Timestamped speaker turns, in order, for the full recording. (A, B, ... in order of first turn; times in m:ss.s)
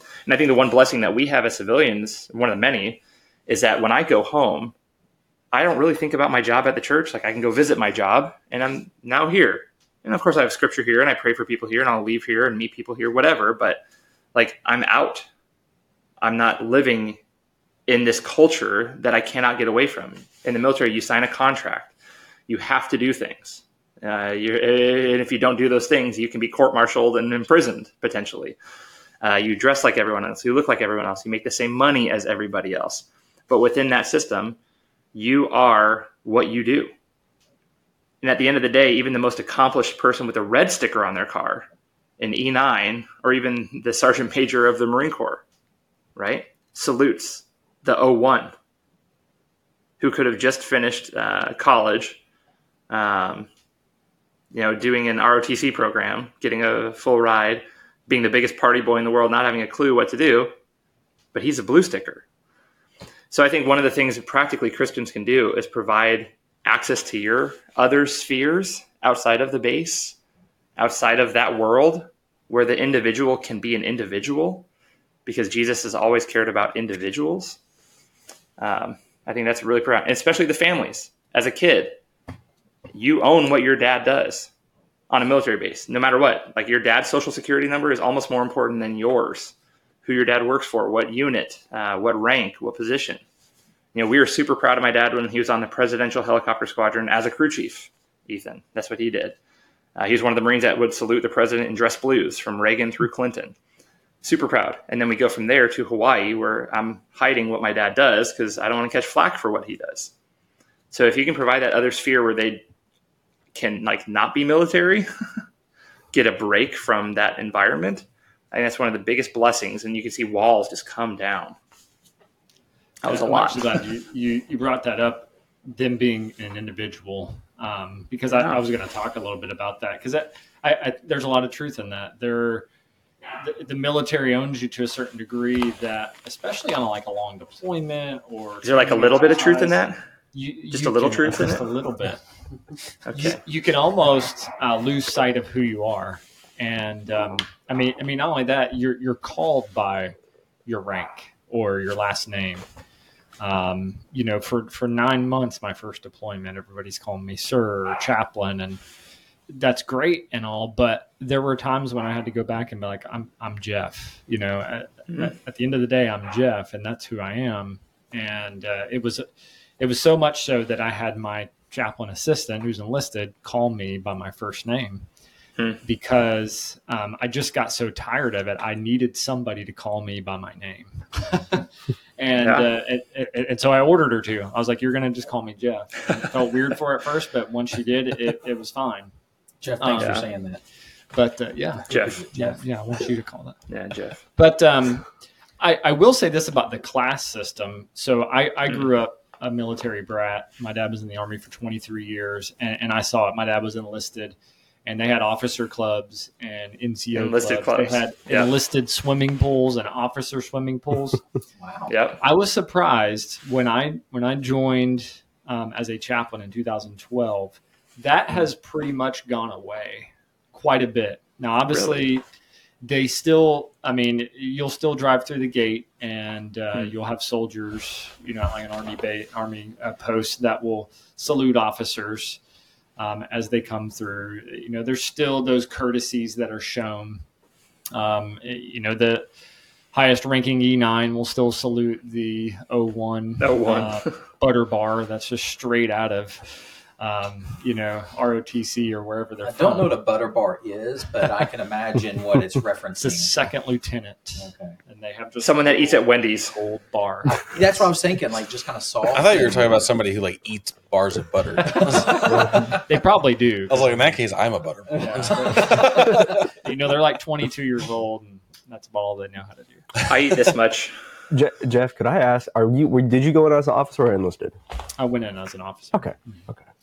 0:00.2-0:04.7 A
0:05.5-0:13.8 A
0:14.3-0:15.3 A
0:16.2-0:17.2 A
0:17.9-0:21.9 A
0:22.5-0:28.6 A
0:29.2-0:34.6 A
0:35.1-0:36.9 A
0:38.2-0:41.7 A
0:42.2-0:45.4 A
0:46.2-0:48.5 A
0:50.0-0:52.2 A
0:52.9-0:53.5 A
0:54.5-1:00.5 A
1:01.3-1:02.2 A
1:03.3-1:10.2 A
1:10.8-1:14.6 A
1:15.2-1:17.6 A
1:18.6-1:22.0 A
1:22.9-1:24.5 A
1:25.1-1:33.2 A
1:33.9-1:39.4 A
1:40.0-1:43.5 A
1:44.2-1:50.1 A
1:50.9-1:52.6 A
1:53.5-1:55.1 A
1:56.1-2:01.6 A
2:03.0-2:03.8 A
2:03.1-2:12.7 B
2:08.3-2:08.6 A
2:13.4-2:19.8 B
2:18.6-2:20.0 A
2:20.3-2:22.2 B
2:20.7-2:21.7 A
2:23.0-2:23.4 A
2:23.1-2:32.6 B
2:33.4-2:38.8 B
2:39.5-2:49.2 B
2:49.8-2:55.1 B
2:55.8-3:09.1 B
3:02.4-3:02.7 A
3:09.6-3:10.6 C
3:09.8-3:10.2 B
3:10.0-3:10.2 A
3:11.1-3:13.6 B
3:11.9-3:12.2 A
3:11.9-3:12.6 C
3:13.7-3:14.2 A
3:14.4-3:31.2 B
3:27.1-3:28.5 A
3:31.6-3:31.9 C
3:31.9-3:32.2 A
3:32.2-3:42.2 B
3:41.7-3:42.0 A
3:42.8-3:52.4 B
3:53.0-3:57.2 B
3:57.9-3:59.3 B
3:59.9-4:10.0 B
4:03.4-4:04.2 A
4:09.4-4:13.3 C
4:13.0-4:17.9 B
4:14.4-4:14.8 C
4:15.4-4:16.5 A
4:17.5-4:19.9 C
4:19.1-4:22.7 D
4:21.7-4:24.2 B
4:21.8-4:22.7 C
4:23.7-4:26.4 D
4:24.9-4:29.9 B
4:25.0-4:25.9 C
4:30.1-4:30.9 A
4:31.3-4:34.6 E
4:35.0-4:36.1 B
4:35.9-4:36.6 E